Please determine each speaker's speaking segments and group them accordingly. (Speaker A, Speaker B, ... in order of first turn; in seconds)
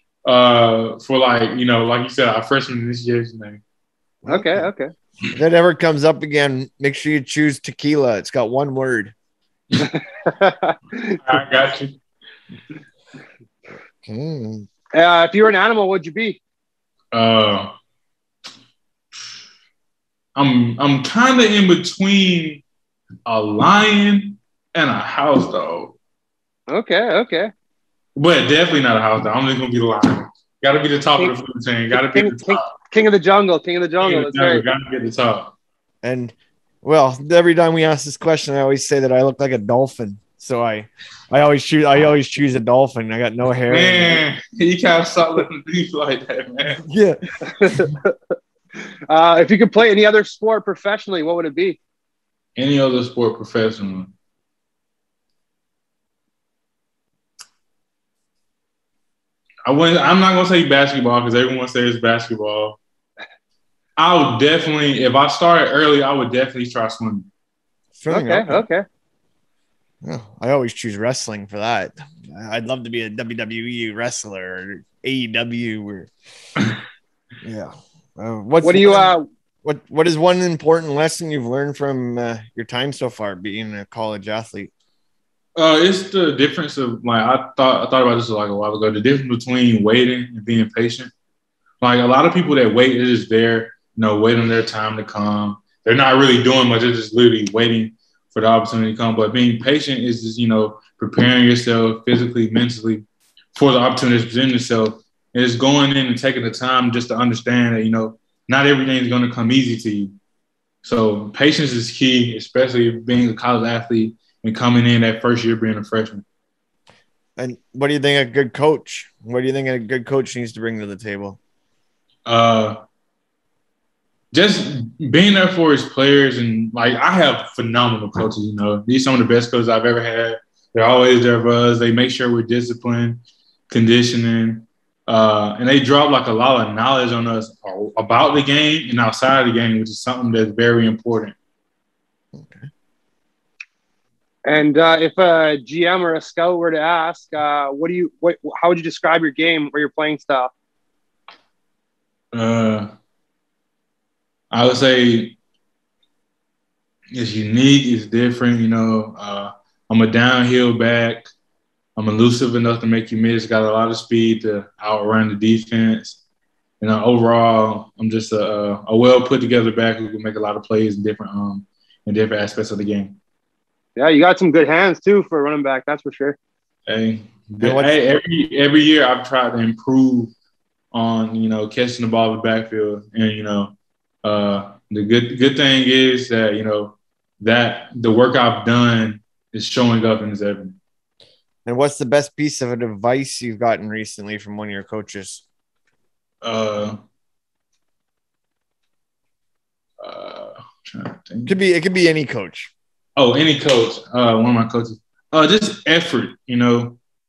Speaker A: 0.2-3.6, 11.2-12.0, 17.1-17.7, 20.4-22.6, 23.2-25.9, 28.1-32.8, 34.0-35.5, 43.7-46.8, 52.6-54.1, 59.6-62.8, 64.0-67.3, 85.6-91.1, 91.8-110.1, 110.8-116.2, 122.2-122.8, 124.3-141.3, 152.3-152.9, 154.5-155.4, 157.1-161.3, 162.0-166.2, 166.8-173.2, 176.9-180.3, 180.9-190.8, 196.4-197.0, 200.0-201.5, 203.2-207.0
Speaker B: 4.2-4.7, 5.3-9.1, 14.0-14.7, 36.0-44.2, 46.9-47.2, 67.9-68.6, 70.0-76.1, 77.4-84.7, 117.4-121.4, 142.3-142.7, 177.6-177.9, 191.7-195.4, 201.5-202.7
Speaker C: 4.3-4.9, 9.8-11.2, 14.9-16.4, 26.7-27.5, 31.9-34.6, 47.5-48.4, 49.1-51.8, 68.1-68.8, 78.6-79.2, 144.5-150.5, 174.0-176.4